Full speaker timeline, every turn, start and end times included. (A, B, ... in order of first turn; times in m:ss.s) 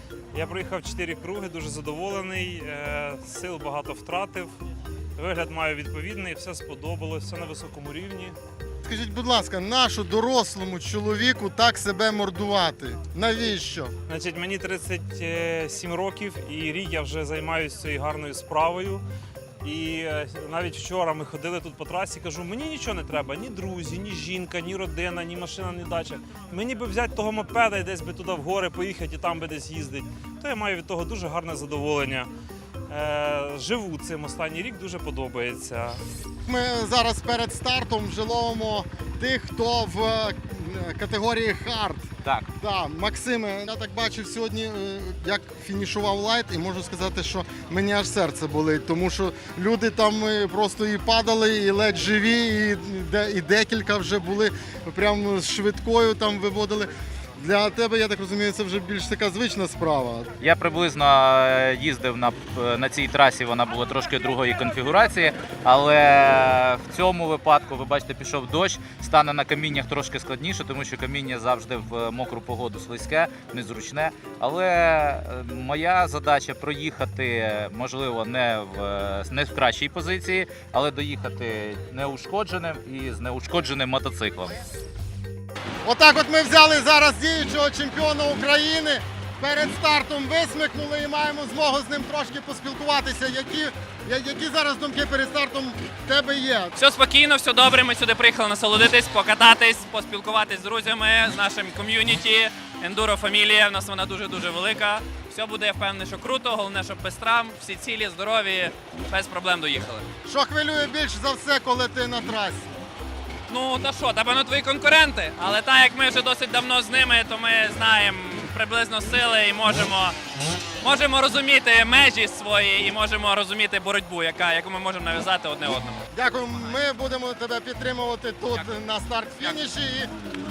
0:00.3-0:04.5 A
0:05.2-0:08.4 A
0:08.8-0:13.9 B
0:14.1-0:19.0 A
0:19.6-0:32.3 A
0:32.9-0:36.0 A
0:36.5-1:00.3 B
1:00.4-1:24.6 C
1:25.8-1:36.8 B
1:36.8-1:50.0 D
1:50.2-1:52.7 B
1:53.5-2:00.1 D
2:00.8-2:06.0 D
2:06.1-2:10.1 B